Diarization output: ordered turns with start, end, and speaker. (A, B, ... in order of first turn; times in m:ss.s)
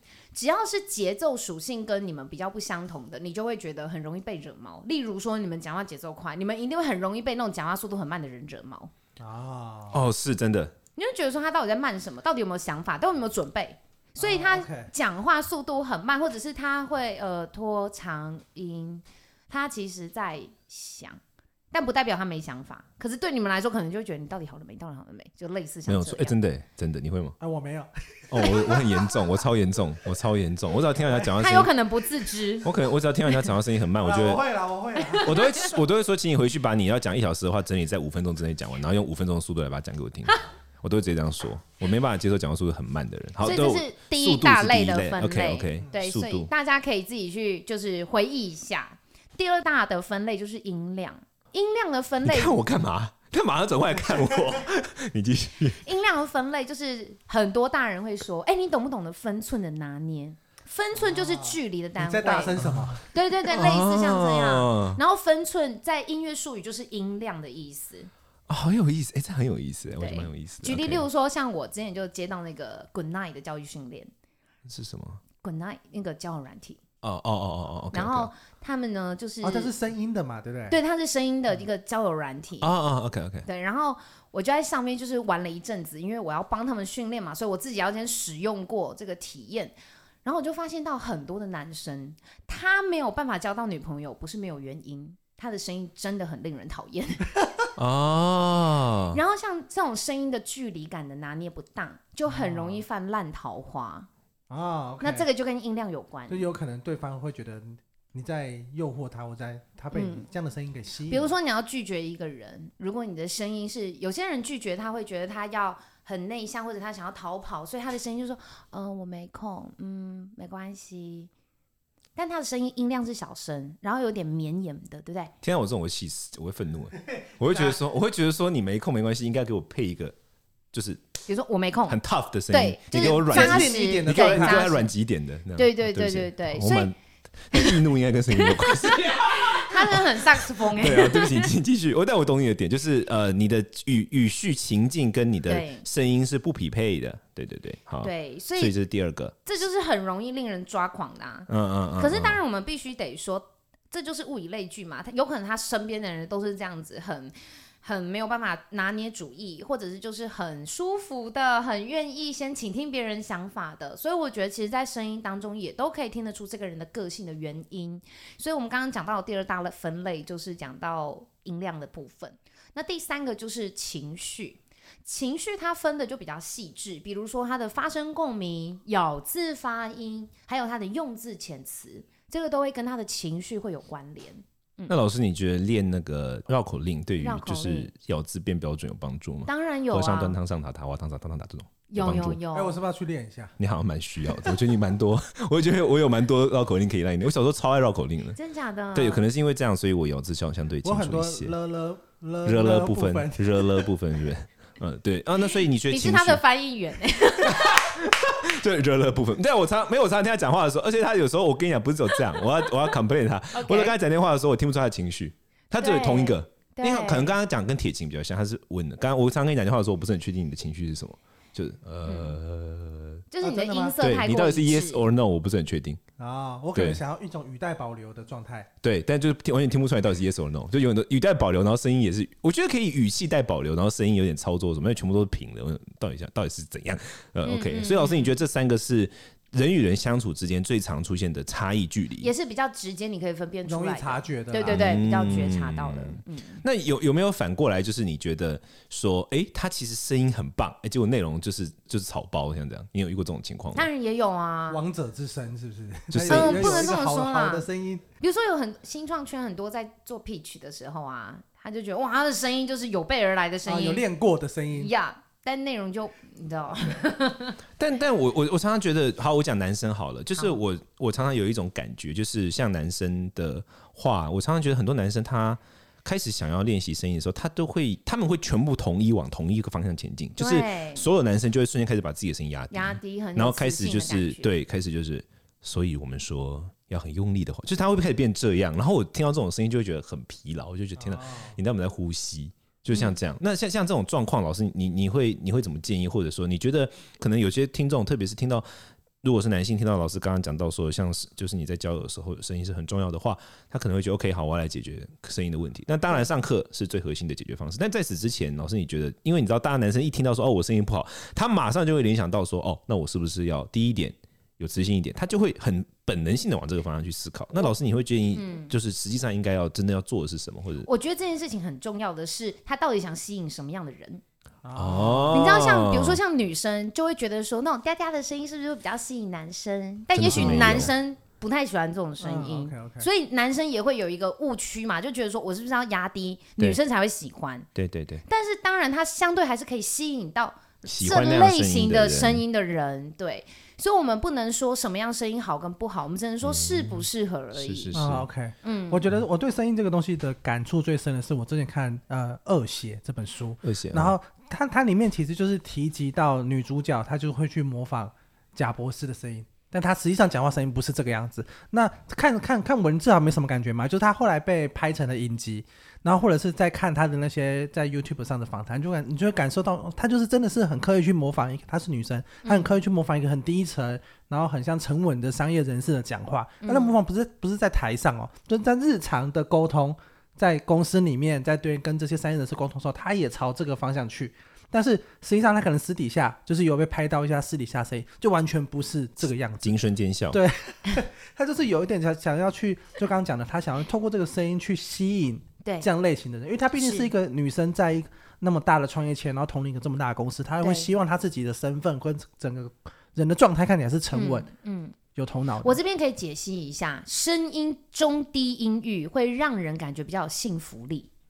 0:00.3-0:08.9 A
0:09.2-0:10.0 B
0:09.9-0:10.7 C
0:11.0-0:21.2 A
0:14.2-0:14.9 B
0:21.7-0:26.4 A
0:25.9-0:27.4 C
0:27.4-0:28.8 B
0:28.3-0:31.7 C
0:31.3-0:32.7 A
0:32.6-0:34.4 C
0:34.0-0:35.3 B
0:35.0-0:35.8 A
0:35.2-0:46.5 C
0:43.4-0:52.6 A
0:52.2-0:55.8 C
0:55.8-1:02.6 A
1:01.0-1:03.0 B
1:02.6-1:05.0 C
1:03.1-1:08.1 A
1:08.5-1:11.0 C
1:10.0-1:14.1 A
1:14.6-1:15.2 C
1:15.4-1:16.8 A
1:17.0-1:18.3 C
1:17.9-1:19.7 A
1:19.4-1:20.8 B
1:20.7-1:22.7 A
1:22.6-1:23.5 C
1:23.5-1:37.3 A
1:37.8-1:39.2 C
1:39.1-1:44.1 A
1:42.3-1:42.8 B
1:44.5-1:45.3 B
1:45.0-1:46.5 A
1:46.3-1:51.3 B
1:49.9-1:50.3 A
1:51.1-2:01.3 A
2:02.2-2:05.3 A
2:05.4-2:10.1 C
2:10.7-2:11.1 C
2:11.3-2:12.0 A
2:11.9-2:29.4 C
2:12.5-2:14.9 A
2:13.2-2:14.7 B
2:15.6-2:16.9 A
2:17.5-2:21.5 A
2:25.5-2:25.8 A
2:28.0-2:28.8 A
2:29.4-3:04.9 A
2:31.5-2:32.4 C
3:04.9-3:12.4 C
3:07.2-3:07.9 A
3:09.5-3:10.4 A
3:11.9-3:12.8 A
3:12.5-3:13.6 B
3:13.6-3:18.4 C
3:18.4-3:19.2 A
3:18.9-3:21.5 C
3:20.8-3:23.9 B
3:22.4-3:26.4 C
3:25.5-3:27.9 A
3:27.4-3:43.2 C
3:33.5-3:33.9 A
3:35.7-3:37.3 A
3:42.0-3:42.4 A
3:43.3-3:45.0 A
3:43.4-3:44.0 B
3:44.0-3:46.0 C
3:46.2-3:48.7 B
3:46.7-3:47.0 C
3:48.8-4:02.3 C
3:57.4-3:58.4 A
4:02.2-4:06.6 A
4:03.6-4:04.9 B
4:04.7-4:13.9 C
4:13.7-4:14.8 A
4:14.7-4:18.0 B
4:16.1-4:17.0 C
4:16.3-4:17.7 A
4:18.2-4:24.0 A
4:23.6-4:24.9 B
4:24.7-4:27.6 A
4:27.8-4:58.6 C
4:40.4-4:41.0 A
4:42.7-4:44.5 A
4:51.0-4:51.6 B
4:52.9-4:53.2 A
4:59.2-5:20.9 C
5:18.3-5:18.7 A
5:20.8-5:24.2 A
5:24.6-5:25.4 B
5:24.8-5:26.2 C
5:25.3-5:37.7 A
5:30.1-5:30.9 C
5:30.2-5:30.9 B
5:32.2-5:33.1 B
5:37.7-5:38.2 C
5:38.3-5:48.0 A
5:40.8-5:42.4 C
5:46.4-5:48.2 C
5:47.9-6:29.8 B
5:48.6-5:49.0 A
5:53.6-5:54.1 C
6:12.4-6:12.7 A
6:16.6-6:16.9 A
6:29.6-6:30.4 C
6:30.3-6:44.5 B
6:36.8-6:37.1 A
6:40.6-6:40.9 A
6:44.1-6:45.0 A
6:45.1-6:45.8 B
6:45.6-6:51.1 A